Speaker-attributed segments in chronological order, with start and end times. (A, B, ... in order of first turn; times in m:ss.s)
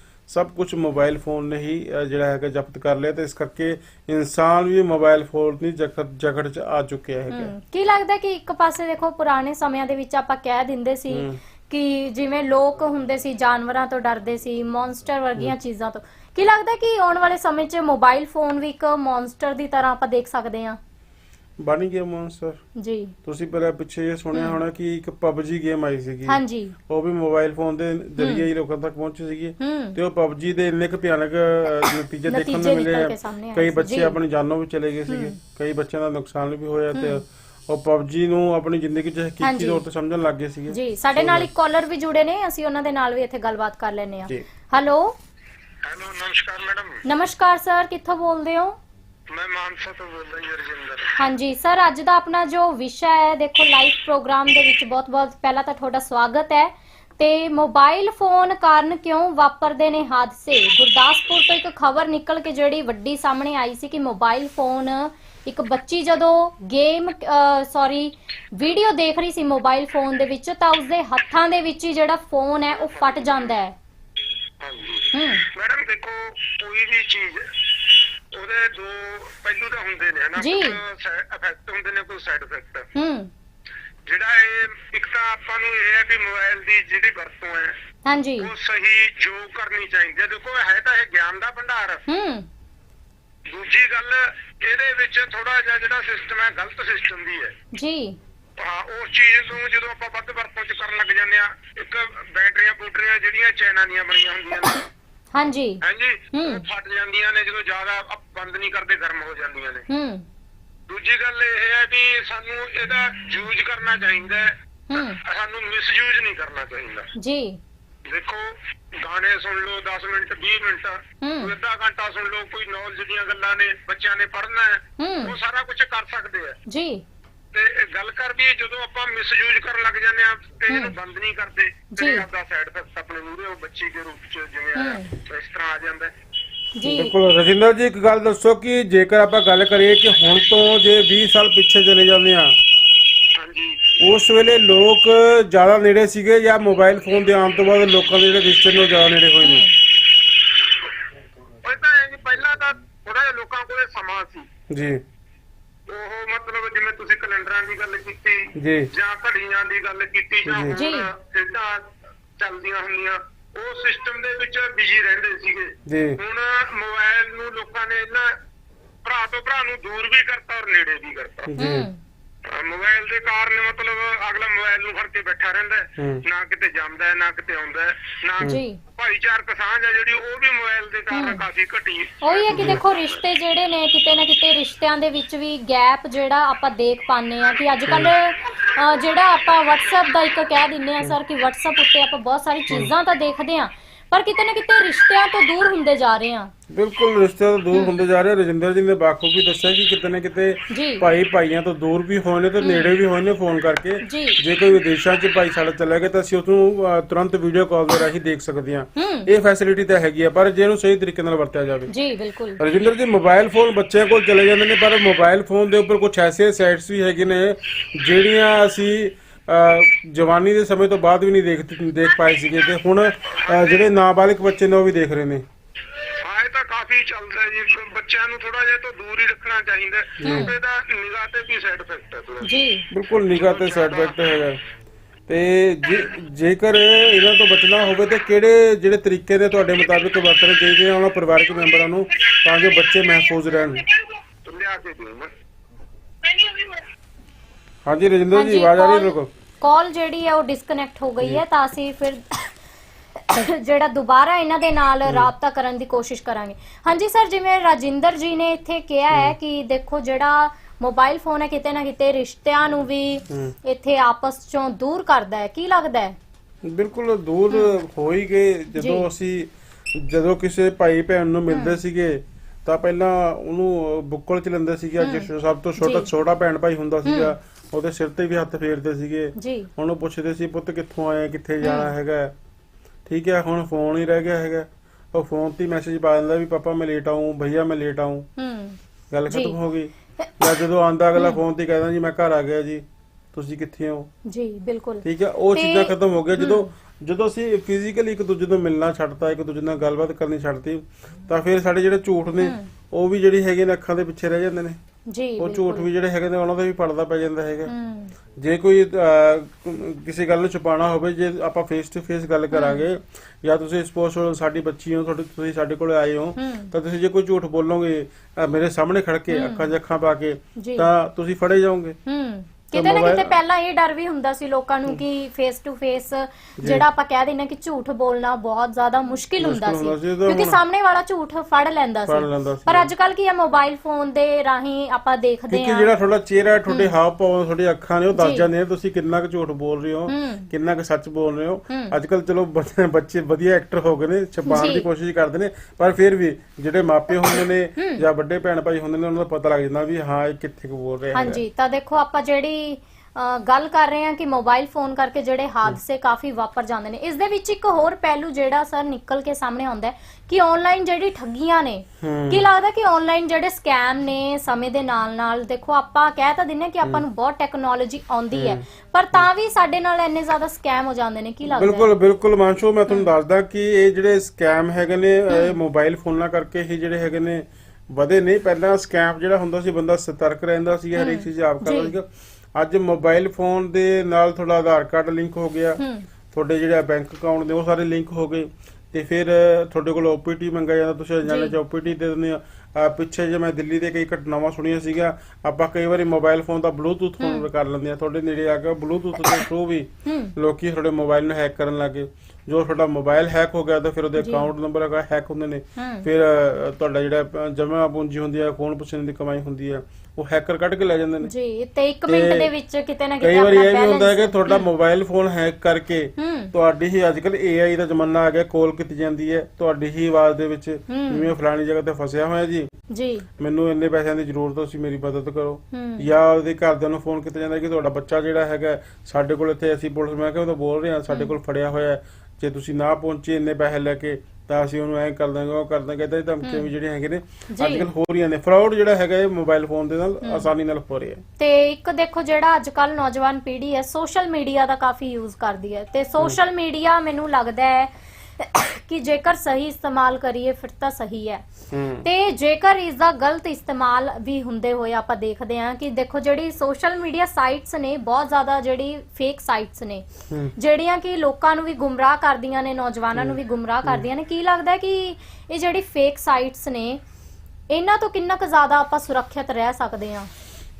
0:00.3-0:07.5 A
0:07.3-0:20.8 B
0:11.1-0:11.4 A
0:21.6-0:22.6 A
0:22.8-0:23.1 B
0:23.2-0:41.5 A
0:26.3-0:26.8 B
0:28.2-0:28.5 B
0:29.6-0:30.0 B
0:32.3-0:34.2 B
0:35.1-0:35.4 B
0:36.9-0:37.2 B
0:39.4-0:39.8 B
0:40.7-0:45.2 B
0:45.8-0:47.0 C
0:47.1-0:48.8 B
0:49.3-0:51.2 C
0:51.2-1:13.8 B
1:12.7-1:13.5 C
1:14.6-1:22.9 C
1:15.1-1:15.4 B
1:20.4-1:20.8 B
1:23.0-1:23.3 B
1:24.1-1:27.8 C
1:28.0-1:28.5 B
1:28.4-1:32.0 C
1:32.1-1:32.5 B
1:33.5-1:37.6 C
1:37.7-1:38.2 B
1:38.6-1:44.9 C
1:45.3-1:46.6 B
1:45.8-1:49.9 C
1:49.9-1:50.3 B
1:50.9-1:57.1 C
1:54.9-1:55.2 B
1:57.2-1:57.6 B
1:58.1-2:06.6 C
2:01.2-2:01.5 B
2:05.0-2:05.4 B
2:06.7-2:07.0 B
2:07.5-2:16.1 C
2:10.7-2:10.9 B
2:12.0-2:12.2 B
2:14.8-2:15.1 B
2:16.8-2:17.2 B
2:16.8-2:22.6 A
2:23.3-2:24.0 C
2:24.0-2:29.7 A
2:29.4-2:29.7 B
2:31.6-2:34.5 C
2:34.7-2:35.0 A
2:35.9-2:48.4 C
2:38.6-2:38.9 A
2:40.5-2:40.8 A
2:40.7-2:41.1 B
2:45.9-2:46.2 A
2:49.0-2:51.5 C
2:51.5-2:51.9 A
2:51.6-2:52.0 B
2:52.4-3:03.2 C
2:56.0-2:56.2 A
2:58.4-2:58.8 B
3:01.1-3:01.4 B
3:02.2-3:16.5 B
3:02.5-3:02.8 A
3:07.9-3:08.1 A
3:16.7-3:31.9 A
3:20.7-3:21.0 B
3:22.6-3:22.9 B
3:24.0-3:24.4 B
3:29.0-3:29.3 B
3:31.9-3:32.6 B
3:32.6-3:45.4 A
3:43.3-3:43.9 C
3:46.1-3:52.6 C
3:50.2-3:50.5 A
3:50.2-3:50.5 B
3:52.4-3:52.9 B
3:52.9-3:54.6 A
3:53.4-3:54.2 C
3:55.3-4:03.9 A
4:01.7-4:05.3 C
4:06.2-4:06.9 C
4:07.9-4:09.3 A
4:08.4-4:12.6 B
4:13.2-4:26.2 B
4:15.1-4:15.3 A
4:26.6-4:42.3 A
4:28.8-4:29.1 B
4:31.5-4:31.8 B
4:35.0-4:35.3 B
4:35.8-4:36.1 B
4:37.0-4:37.3 B
4:39.4-4:39.7 B
4:41.6-4:41.9 B
4:43.1-4:48.3 A
4:48.4-4:48.8 B
4:49.1-4:54.1 A
4:49.3-4:49.6 B
4:54.3-4:56.7 B
4:55.0-5:04.8 A
5:02.4-5:02.7 B
5:05.1-5:05.9 B
5:05.4-5:07.7 A
5:07.7-5:08.2 B
5:08.4-5:22.0 A
5:12.5-5:12.8 B
5:16.4-5:16.7 B
5:19.3-5:19.7 B
5:20.6-5:20.9 B
5:22.1-5:35.9 B
5:22.7-5:23.4 A
5:26.6-5:26.8 A
5:29.4-5:30.6 A
5:32.1-5:32.9 A
5:35.5-5:51.4 A
5:36.7-5:36.9 B
5:38.1-5:38.5 B
5:40.1-5:40.5 B
5:41.7-5:42.0 B
5:44.5-5:44.9 B
5:47.2-5:48.0 B
5:51.1-6:11.9 B
6:02.0-6:02.5 A
6:08.3-6:08.6 A
6:11.5-6:51.3 A
6:15.3-6:15.6 B
6:21.0-6:22.0 B
6:25.8-6:26.1 B
6:31.2-6:31.5 B
6:37.2-6:37.5 B
6:40.0-6:40.3 B
6:44.2-6:44.5 B
6:45.8-6:46.1 B
6:51.2-6:54.7 B
6:52.1-6:52.5 A
6:53.2-7:02.7 A
6:56.2-6:56.5 B
7:00.9-7:01.3 B
7:02.9-7:03.3 B
7:03.4-7:21.2 A
7:05.7-7:06.1 B
7:17.5-7:17.9 B
7:20.2-7:20.5 B
7:21.4-7:31.4 B
7:31.7-7:32.1 A
7:32.0-7:47.0 B
7:43.2-7:44.1 A
7:47.7-7:50.3 B